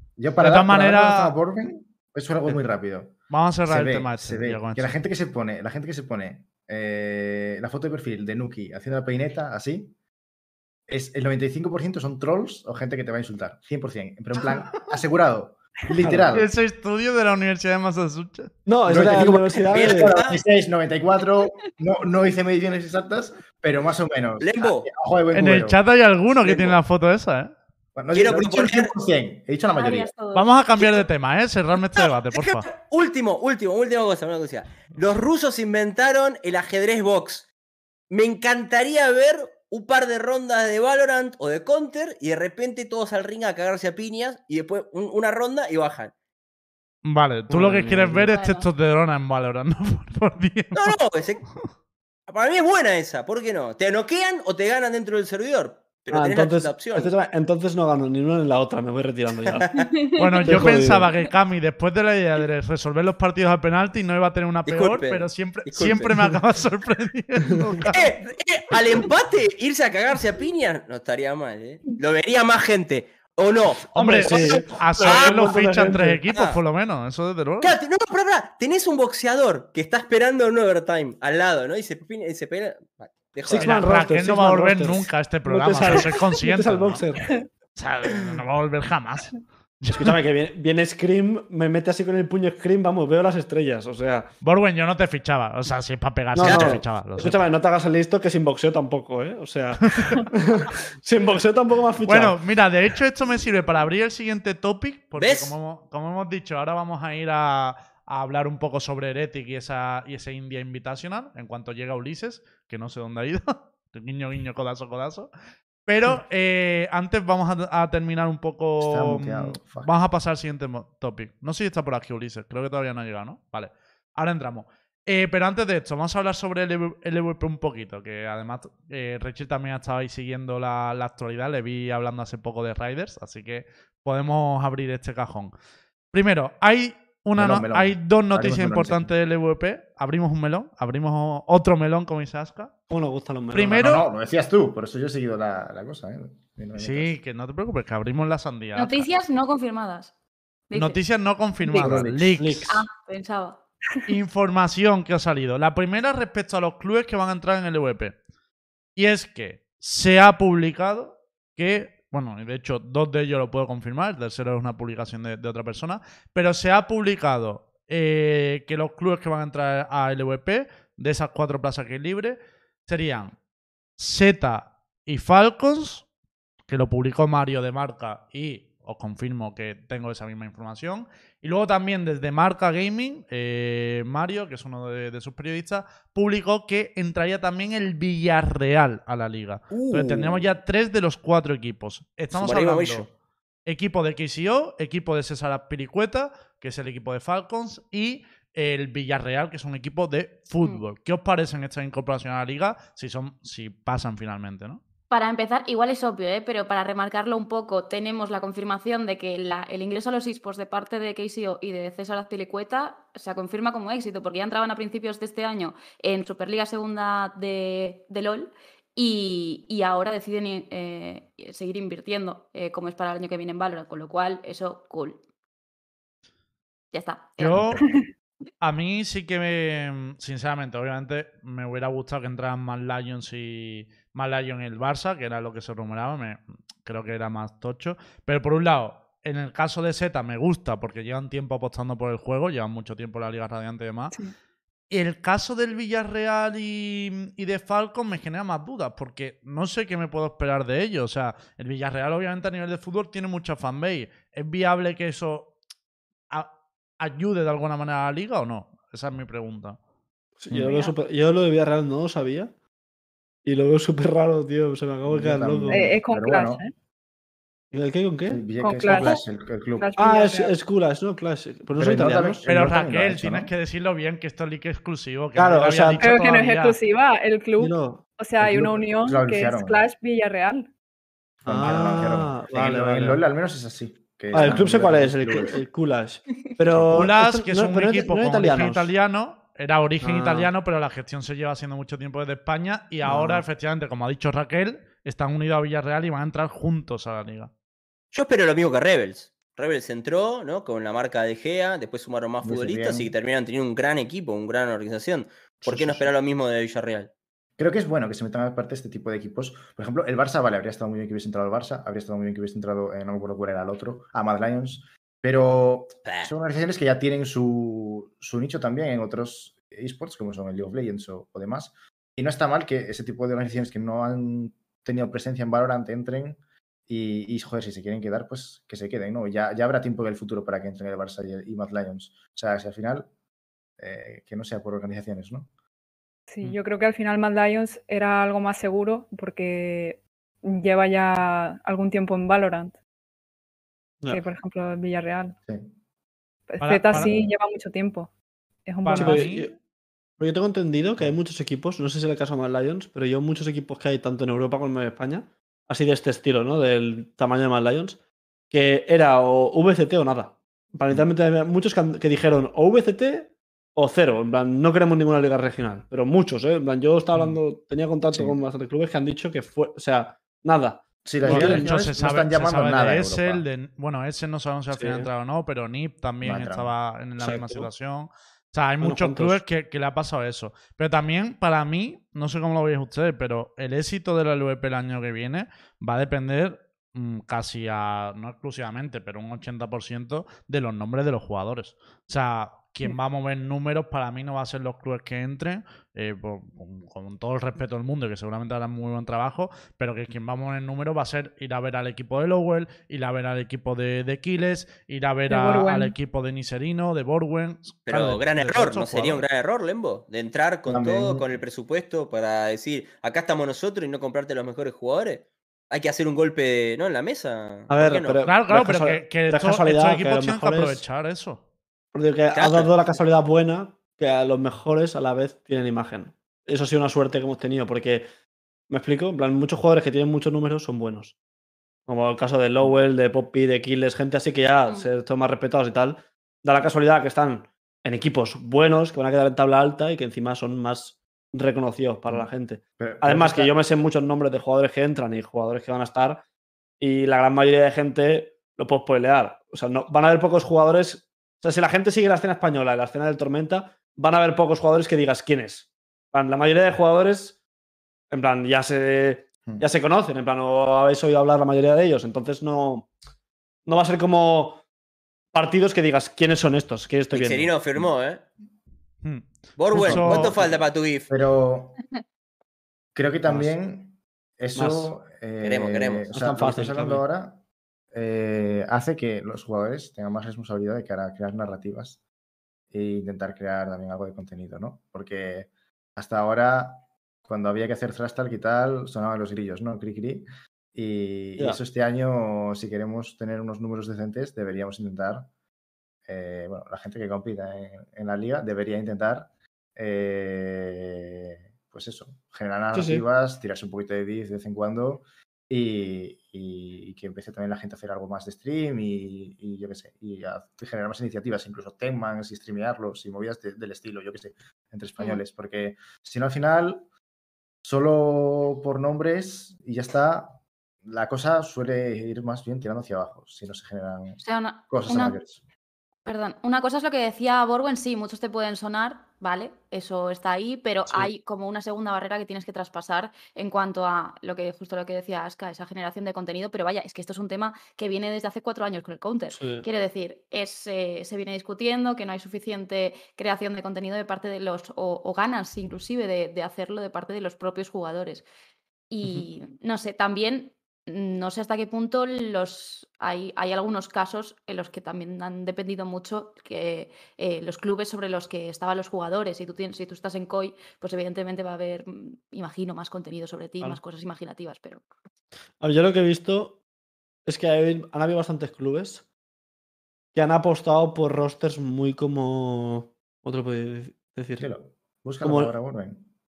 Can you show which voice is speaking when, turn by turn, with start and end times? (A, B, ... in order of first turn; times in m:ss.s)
0:00.2-0:03.1 A
0:00.4-0:01.3 B
0:03.3-0:04.9 B
0:03.7-0:09.9 A
0:10.9-0:16.5 A
0:16.3-0:18.5 B
0:18.7-0:20.2 C
0:18.9-0:25.8 A
0:19.7-0:20.4 D
0:24.4-0:24.9 D
0:25.3-0:27.5 B
0:26.4-0:26.8 D
0:28.0-0:30.1 A
0:28.1-0:28.9 D
0:29.8-0:30.5 E
0:30.3-0:32.7 B
0:32.0-0:37.5 D
0:38.1-0:46.1 D
0:47.0-0:51.0 B
0:47.5-0:48.3 C
0:48.2-0:48.7 E
0:50.7-0:51.4 D
0:52.3-0:57.1 D
0:56.1-0:59.7 C
0:59.5-0:59.9 D
1:00.2-1:08.1 B
1:00.4-1:01.1 C
1:04.7-1:06.3 D
1:07.8-1:16.6 D
1:13.9-1:16.2 C
1:13.9-1:17.8 B
1:17.6-1:23.8 D
1:23.4-1:27.4 C
1:23.6-1:27.0 B
1:27.8-1:30.2 B
1:29.9-1:34.3 C
1:34.4-1:37.4 B
1:36.3-1:42.4 C
1:36.4-1:36.8 D
1:42.0-1:55.3 B
1:45.2-1:45.6 D
1:55.9-2:15.5 B
1:58.8-2:00.0 A
2:16.1-2:22.7 B
2:17.3-2:19.1 A
2:22.9-2:23.9 C
2:23.5-2:24.0 B
2:23.8-2:27.1 A
2:26.7-2:29.2 B
2:28.7-2:30.1 E
2:30.7-2:31.0 E
2:30.7-2:32.8 B
2:31.7-2:32.8 C
2:31.8-2:32.4 A
2:32.7-2:33.6 E
2:34.1-2:38.2 B
2:39.0-2:53.3 B
2:54.0-2:56.0 B
2:56.7-3:13.1 B
3:09.7-3:10.4 D
3:12.3-3:13.1 D
3:13.7-3:24.8 B
3:25.1-3:45.2 E
3:46.9-3:47.8 E
3:47.4-3:47.8 B
3:48.6-4:04.1 B
4:04.9-4:15.5 B
4:16.3-4:19.8 B
4:20.4-4:22.5 C
4:20.5-4:20.7 A
4:23.4-4:26.0 C
4:25.0-4:26.6 A
4:25.7-4:26.7 F
4:27.7-4:28.5 C
4:28.3-4:29.9 A
4:28.6-4:29.2 F
4:29.8-4:30.5 F
4:30.0-4:32.5 C
4:31.8-4:33.5 A
4:32.5-4:36.8 B
4:35.3-4:36.0 C
4:36.0-4:40.7 F
4:37.6-4:38.0 C
4:38.4-4:39.9 A
4:41.4-4:43.2 C
4:41.4-4:45.6 A
4:44.3-4:48.9 C
4:46.7-4:47.1 A
4:46.9-4:57.5 B
4:50.0-4:50.5 C
4:53.0-4:53.4 C
4:58.1-5:07.1 D
5:02.4-5:03.1 A
5:05.6-5:06.1 A
5:07.6-5:33.1 A
5:16.0-5:16.3 D
5:33.8-5:35.5 A
5:36.3-5:42.7 F
5:44.1-5:45.4 F
5:45.5-5:45.8 A
5:46.5-5:48.1 F
5:46.6-5:47.1 B
5:48.7-5:49.3 F
5:48.8-5:49.5 B
5:49.0-5:49.5 C
5:50.2-5:58.0 C
5:58.5-6:11.7 C
6:08.1-6:08.4 A
6:11.0-6:13.4 A
6:11.2-6:49.3 B
6:14.7-6:15.1 C
6:16.2-6:16.7 A
6:17.2-6:17.7 C
6:18.8-6:19.4 C
6:45.3-6:46.0 F
6:47.9-6:58.2 D
6:50.7-6:51.4 A
6:57.7-7:00.8 C
6:58.2-7:01.4 B
7:01.9-7:08.1 C
7:02.3-7:02.7 D
7:08.7-7:11.1 C
7:11.9-7:26.2 C
7:22.1-7:23.5 A
7:26.8-7:37.4 C
7:38.1-7:42.9 C
7:43.7-7:44.6 C
7:45.3-7:47.6 C
7:47.1-7:48.2 D
7:49.0-7:50.3 B
7:49.6-7:51.1 D
7:49.7-7:51.8 A
7:53.0-7:57.4 A
7:53.3-7:53.5 C
7:54.6-7:54.9 C
7:55.4-7:56.1 D
7:56.1-7:57.0 C
7:57.9-8:02.0 A
8:02.7-8:15.3 A
8:16.0-8:36.9 A
8:22.7-8:23.0 C
8:37.6-8:45.4 A
8:44.2-8:45.2 E
8:46.0-9:08.2 E
8:59.3-8:59.7 C
9:08.9-9:24.8 E
9:25.6-9:26.6 C
9:27.3-9:29.0 C
9:30.1-9:34.5 C
9:34.4-9:36.0 A
9:35.2-9:35.5 C